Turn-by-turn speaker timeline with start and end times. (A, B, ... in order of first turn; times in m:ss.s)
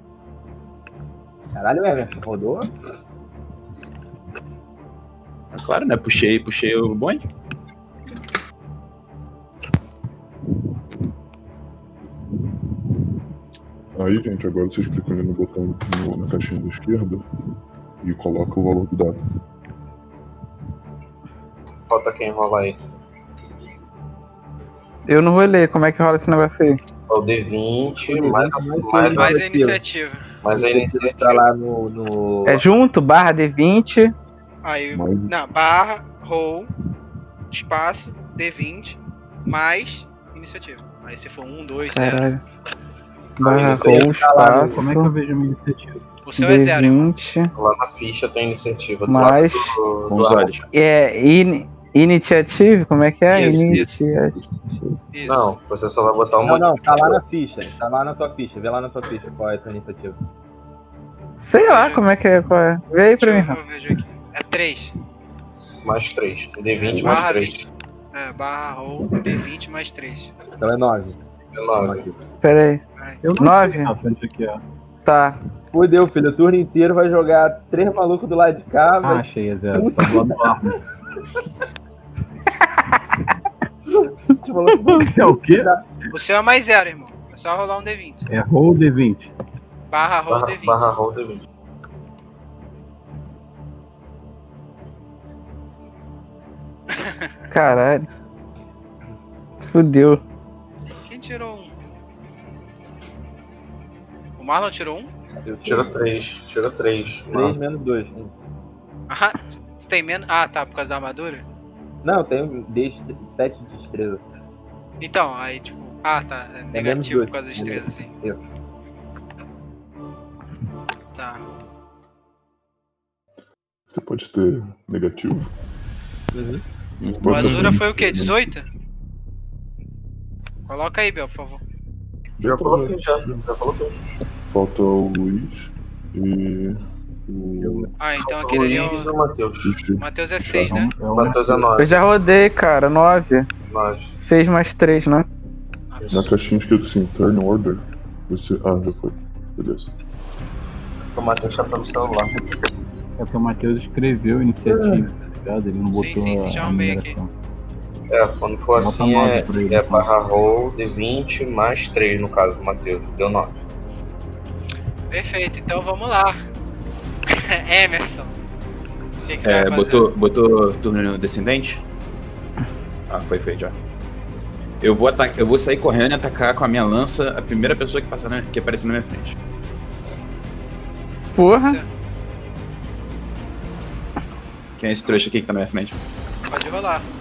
0:01.5-0:02.7 A
0:05.5-0:07.2 B
0:13.9-0:17.2 C
0:18.0-0:19.2 C
0:21.9-0:22.8 D
0:25.1-0:26.8 E
0:27.1-0:29.3 D
0:28.0-0:29.8 A
0:29.2-0:30.2 F
0:30.4-0:31.4 D
0:30.5-0:32.6 A
0:32.4-0:34.1 E
0:34.6-0:36.7 F
0:34.9-0:35.3 C
0:37.5-0:42.3 F
0:41.9-0:42.4 E
0:43.4-0:45.1 E
0:43.4-0:44.1 D
0:43.4-0:44.8 A
0:44.7-0:46.0 G
0:46.2-0:47.1 F
0:46.4-0:47.5 E
0:47.6-0:50.5 D
0:49.1-0:49.7 E
0:50.1-0:50.7 B
0:50.7-0:54.4 E
0:53.3-0:53.9 F
0:55.1-0:55.5 F
0:55.2-0:57.2 D
0:56.4-1:00.2 A
1:01.4-1:03.6 E
1:01.6-1:02.0 F
1:03.1-1:04.9 F
1:05.8-1:07.7 D
1:06.8-1:07.6 F
1:06.9-1:07.2 C
1:08.1-1:10.3 F
1:10.6-1:11.2 A
1:11.5-1:12.1 D
1:11.8-1:12.1 A
1:12.4-1:12.8 E
1:13.2-1:14.6 G
1:13.4-1:13.9 E
1:15.0-1:15.4 E
1:15.7-1:20.4 A
1:19.0-1:20.8 G
1:23.9-1:25.8 A
1:24.9-1:25.7 G
1:26.1-1:28.2 F
1:28.3-1:29.3 G
1:29.9-1:30.8 F
1:30.3-1:31.4 D
1:36.9-1:37.3 F
1:37.5-1:38.1 E
1:39.6-1:40.2 E
1:41.1-1:41.7 F
1:44.4-1:45.1 F
1:45.4-1:45.9 A
1:45.6-1:47.5 D
1:47.3-1:48.3 A
1:49.1-1:51.4 F
1:52.0-1:54.2 A
1:55.0-1:58.1 F
1:56.7-1:58.4 A
2:01.1-2:01.4 F
2:03.9-2:05.5 C
2:06.3-2:06.6 A
2:07.0-2:07.7 B
2:07.1-2:08.5 C
2:07.2-2:08.6 F
2:10.7-2:11.6 F
2:12.4-2:13.4 C
2:12.4-2:13.9 D
2:14.5-2:17.9 C
2:18.0-2:19.1 F
2:18.2-2:19.8 D
2:19.6-2:20.8 C
2:20.0-2:20.9 F
2:20.6-2:21.7 G
2:21.1-2:22.0 D
2:21.8-2:23.5 E
2:23.7-2:24.1 D
2:24.2-2:25.2 E
2:25.9-2:26.2 F
2:26.0-2:26.3 D
2:26.1-2:29.9 C
2:31.1-2:32.4 D
2:33.2-2:37.3 G
2:34.6-2:35.0 D
2:35.9-2:37.2 F
2:38.1-2:43.5 D
2:38.8-2:40.1 G
2:45.1-2:46.4 F
2:47.3-2:48.3 F
2:49.2-2:50.1 F
2:49.4-2:51.8 B
2:53.1-2:53.8 B
2:54.8-2:59.4 B
3:01.4-3:01.8 E
3:04.8-3:06.0 B
3:06.5-3:07.0 F